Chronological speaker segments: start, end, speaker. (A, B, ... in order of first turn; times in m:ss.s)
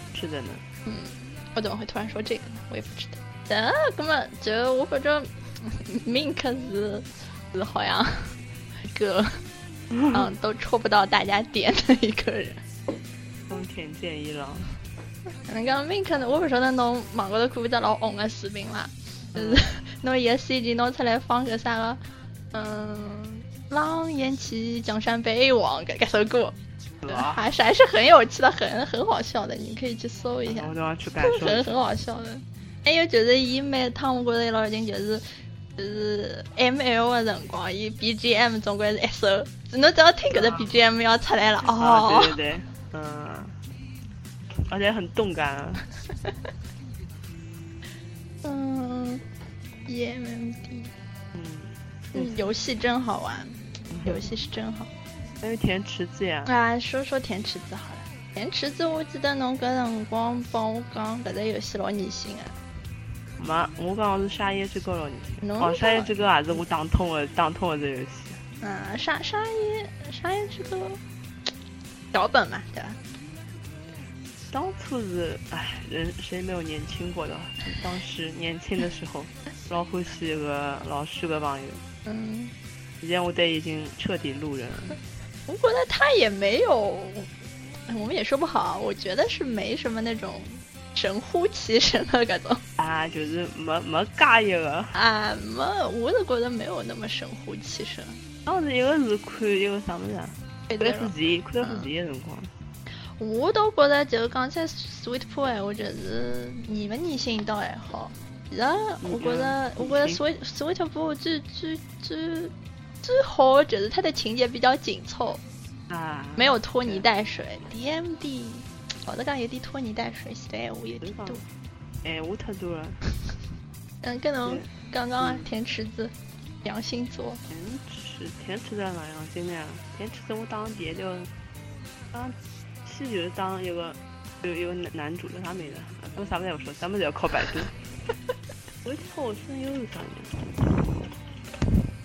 0:00.1-0:00.6 A
0:00.8-0:09.4 B
0:09.9-0:10.2 A
0:10.1-0:12.6 B
0:13.5-0:14.8 A
0:15.4-0:22.0 B
0:19.3-0:19.7 A
0:22.5-0:26.6 B
0:27.0-0:27.4 A
0:27.1-0:42.4 B
0:30.5-0:31.7 A
0:40.3-0:40.7 A
0:41.7-0:43.6 A
0:44.6-0:45.9 A
0:48.4-0:49.2 B
0:49.8-0:50.9 B
0:51.3-0:52.3 A
0:52.1-0:54.9 B
0:53.9-0:54.3 A
0:55.4-0:56.5 A
0:56.4-1:02.6 B
1:03.4-1:08.4 A
1:05.4-1:06.2 B
1:08.6-1:11.0 B
1:12.1-1:13.0 B
1:14.5-1:21.8 A
1:22.0-1:22.5 B
1:23.0-1:25.0 A
1:25.5-1:27.3 B
1:27.9-1:32.6 B
1:32.8-1:35.0 A
1:34.9-1:38.2 B
1:38.4-1:42.5 A
1:40.7-1:41.9 B
1:43.0-1:55.4 B
1:49.0-1:50.2 A
1:55.9-1:57.0 A
1:56.4-2:01.4 B
2:01.0-2:01.4 A
2:02.0-2:03.1 A
2:04.0-2:07.4 B
2:04.4-2:05.5 A
2:07.5-2:11.3 A
2:12.1-2:17.8 A
2:18.8-2:21.0 A